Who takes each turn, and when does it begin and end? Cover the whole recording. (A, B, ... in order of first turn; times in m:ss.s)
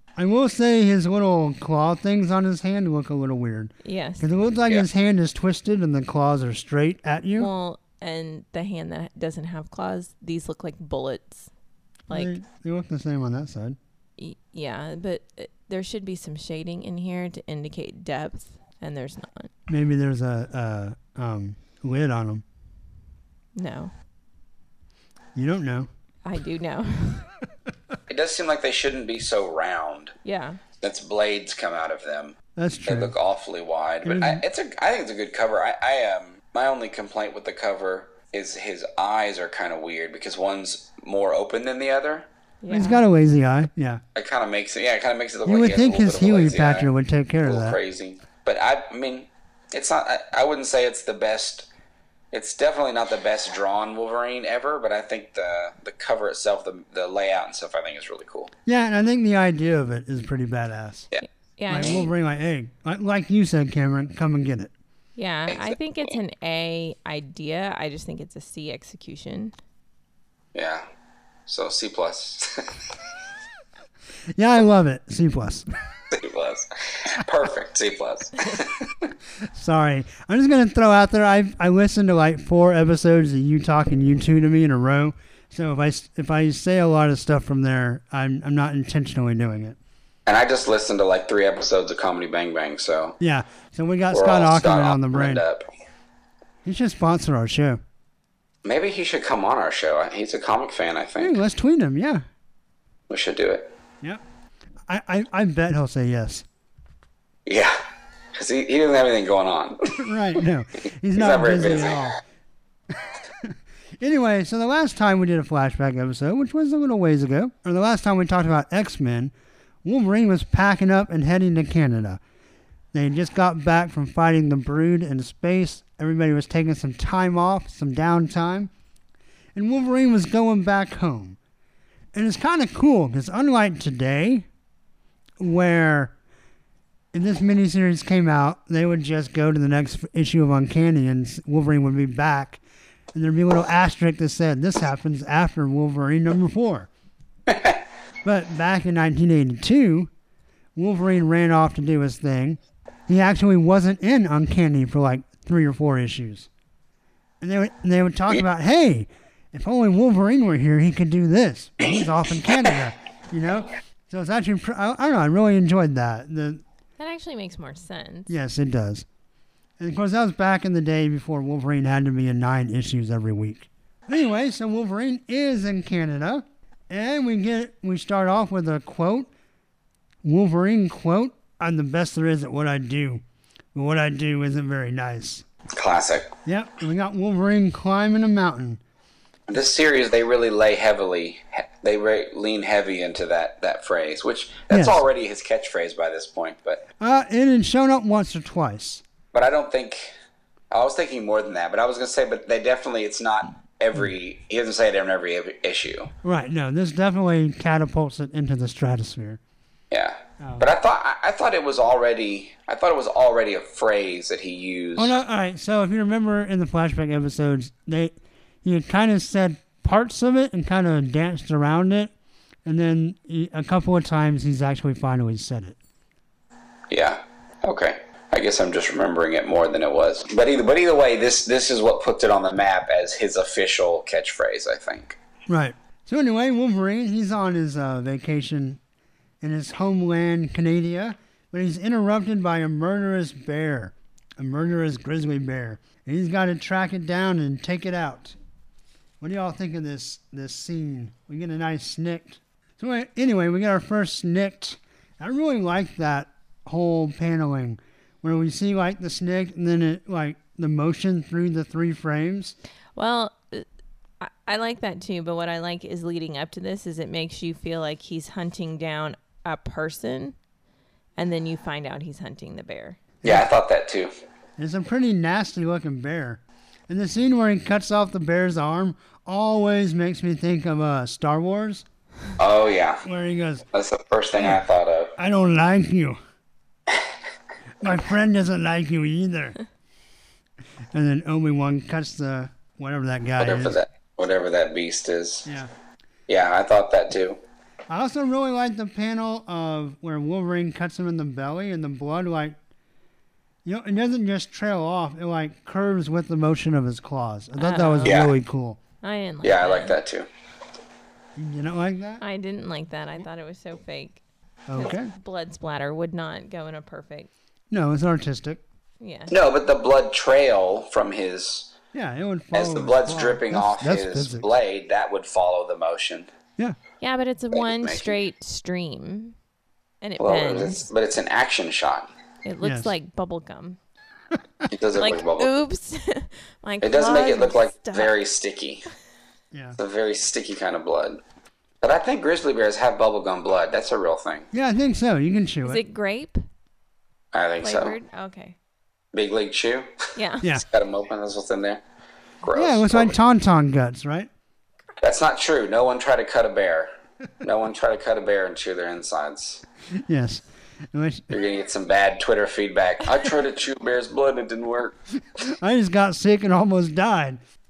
0:00.2-0:07.5 A
0:03.8-0:04.3 B
0:07.4-0:11.5 B
0:12.1-0:13.8 A
0:14.2-0:19.5 B
0:19.7-0:22.4 A
0:23.6-0:23.9 B
0:25.3-0:25.9 A
0:26.2-0:27.4 B
0:28.1-0:30.1 C
0:30.2-0:30.6 B
0:30.8-0:32.3 C
0:32.5-0:33.1 A
0:32.8-0:42.3 C
0:34.0-0:34.4 A
0:42.6-0:43.0 B
0:42.7-0:44.0 A
0:44.1-0:46.9 C
0:45.4-0:47.8 A
0:47.4-0:51.7 C
0:52.3-0:58.5 C
0:58.6-1:01.1 A
1:01.1-1:02.0 C
1:01.2-1:02.1 B
1:01.7-1:04.7 A
1:05.2-1:09.5 B
1:05.5-1:06.2 C
1:10.5-1:10.8 C
1:11.5-1:12.7 C
1:14.4-1:15.7 A
1:16.1-1:19.1 C
1:19.4-1:29.8 A
1:30.2-1:33.2 C
1:33.2-1:35.4 A
1:34.1-1:35.6 C
1:36.6-1:37.8 A
1:38.6-1:41.4 C
1:41.2-1:42.2 A
1:43.1-1:43.7 C
1:44.9-1:46.4 A
1:47.4-1:47.8 C
1:48.3-1:50.0 C
1:50.0-1:52.2 A
1:51.1-1:52.1 C
1:53.0-1:59.3 A
1:59.8-2:02.2 A
2:02.9-2:08.7 A
2:09.5-2:11.4 A
2:12.1-2:14.4 A
2:15.4-2:16.1 A
2:17.1-2:22.6 A
2:23.1-2:26.9 A
2:27.5-2:27.8 C
2:28.2-2:30.1 A
2:30.8-2:36.5 A
2:37.4-2:46.6 A
2:47.0-2:48.3 B
2:48.3-2:49.0 A
2:49.8-2:59.3 A
3:00.2-3:03.2 A
3:03.7-3:05.4 A
3:05.7-3:06.3 C
3:06.4-3:08.8 A
3:09.5-3:16.8 C
3:14.7-3:15.0 A
3:17.0-3:19.0 A
3:19.3-3:20.1 C
3:20.7-3:26.1 C
3:26.2-3:29.4 A
3:29.9-3:35.2 C
3:30.4-3:30.7 A
3:35.0-3:42.1 A
3:42.6-3:45.8 A
3:46.9-3:55.2 C
3:55.5-3:58.8 A
3:59.4-4:08.3 A
4:09.2-4:22.6 A
4:23.0-4:23.6 B
4:24.2-4:30.4 B
4:31.2-4:33.0 B
4:33.2-4:33.5 A
4:33.2-4:34.1 C
4:34.6-4:41.8 A
4:42.4-4:43.0 C
4:43.0-4:43.6 A
4:43.7-4:45.1 C
4:44.3-4:44.6 A
4:45.2-4:46.2 A
4:47.8-4:49.6 A
4:50.9-4:53.8 A
4:53.4-4:55.5 C
4:55.4-4:55.7 A
4:56.3-4:57.4 C
4:57.9-5:02.6 A
5:03.6-5:08.8 A
5:07.6-5:08.2 B
5:08.0-5:08.3 C
5:09.0-5:10.0 B
5:09.4-5:10.3 C
5:11.4-5:12.2 A
5:12.2-5:14.2 B
5:14.7-5:15.1 A
5:14.7-5:17.3 B
5:17.7-5:18.6 A
5:19.0-5:19.4 B
5:19.3-5:21.7 C
5:21.9-5:24.5 A
5:22.5-5:26.3 C
5:27.0-5:29.3 B
5:27.5-5:28.2 C
5:30.0-5:30.9 B
5:30.2-5:32.1 C
5:32.4-5:33.8 B
5:32.6-5:32.9 A
5:34.7-5:35.5 C
5:34.9-5:38.1 B
5:36.8-5:38.9 C
5:39.5-5:39.8 A
5:39.8-5:41.2 C
5:41.8-5:44.5 C
5:44.5-5:45.8 A
5:45.6-5:46.4 B
5:47.3-5:47.9 C
5:47.6-5:48.6 B
5:49.1-5:49.9 C
5:50.2-5:50.5 B
5:50.5-5:51.8 C
5:52.4-5:53.1 C
5:52.5-5:54.3 A
5:55.0-5:56.9 C
5:57.4-5:59.6 C
5:59.9-6:01.3 A
6:01.3-6:05.0 C
6:05.4-6:07.4 A